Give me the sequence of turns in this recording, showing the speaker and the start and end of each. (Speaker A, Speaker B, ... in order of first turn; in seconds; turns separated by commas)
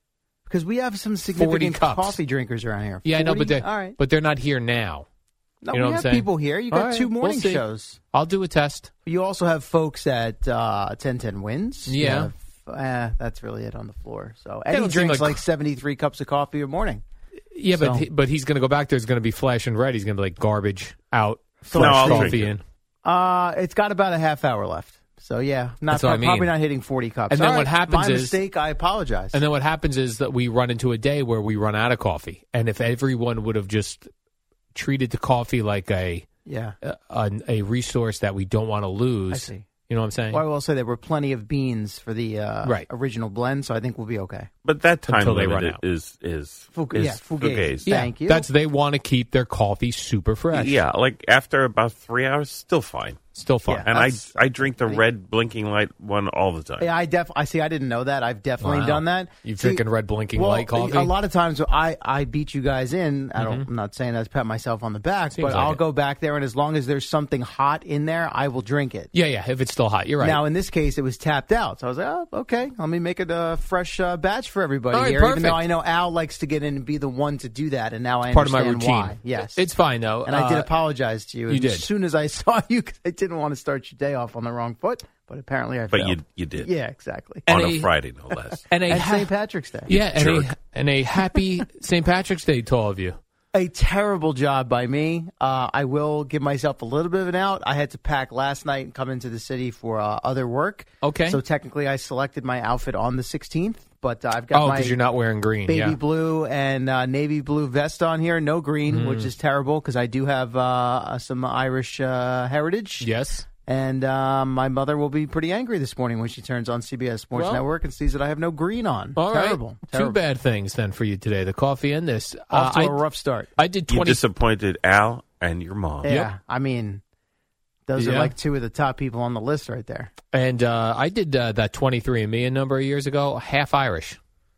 Speaker A: 0.5-4.0, Speaker B: 1.3-2.2, Speaker B: 3.0-5.1, Speaker A: 5.6-8.0, Speaker B: 5.7-8.9, Speaker A: 9.1-17.0, Speaker B: 11.9-12.3, Speaker B: 14.7-15.4, Speaker B: 17.5-22.6, Speaker A: 17.7-18.1, Speaker A: 21.7-22.4, Speaker C: 21.7-22.5, Speaker A: 23.0-29.4, Speaker B: 25.9-26.5, Speaker B: 27.3-28.4, Speaker B: 29.3-34.1, Speaker B: 34.7-36.2, Speaker A: 36.5-36.8, Speaker B: 36.8-40.4, Speaker A: 39.3-39.7, Speaker A: 40.3-44.5, Speaker C: 44.6-47.9, Speaker B: 45.1-45.8, Speaker A: 46.7-48.5, Speaker B: 47.9-50.8, Speaker C: 50.5-53.2, Speaker B: 53.3-53.9, Speaker A: 53.7-55.0, Speaker C: 53.9-56.9, Speaker A: 56.8-69.1, Speaker B: 58.6-61.1, Speaker B: 63.4-63.7, Speaker B: 65.3-65.8, Speaker B: 69.1-70.4, Speaker A: 70.2-79.7, Speaker B: 74.9-75.6, Speaker B: 78.3-80.7, Speaker A: 80.2-87.5, Speaker B: 81.5-81.9, Speaker C: 85.9-86.7, Speaker B: 87.5-87.9, Speaker C: 87.5-88.7, Speaker B: 88.7-89.3, Speaker A: 88.9-89.9, Speaker B: 89.9-93.2, Speaker C: 89.9-90.5, Speaker A: 93.5-105.0, Speaker B: 101.0-101.4, Speaker B: 104.5-106.0, Speaker A: 105.7-113.1, Speaker B: 108.9-109.3, Speaker B: 113.0-113.5, Speaker A: 113.7-120.2, Speaker B: 117.3-117.6, Speaker B: 119.2-123.0, Speaker A: 122.5-123.5, Speaker B: 123.6-124.2, Speaker C: 123.9-126.1, Speaker A: 126.0-127.0, Speaker B: 126.0-126.3, Speaker A: 127.9-130.1, Speaker B: 128.0-128.3, Speaker B: 130.3-134.2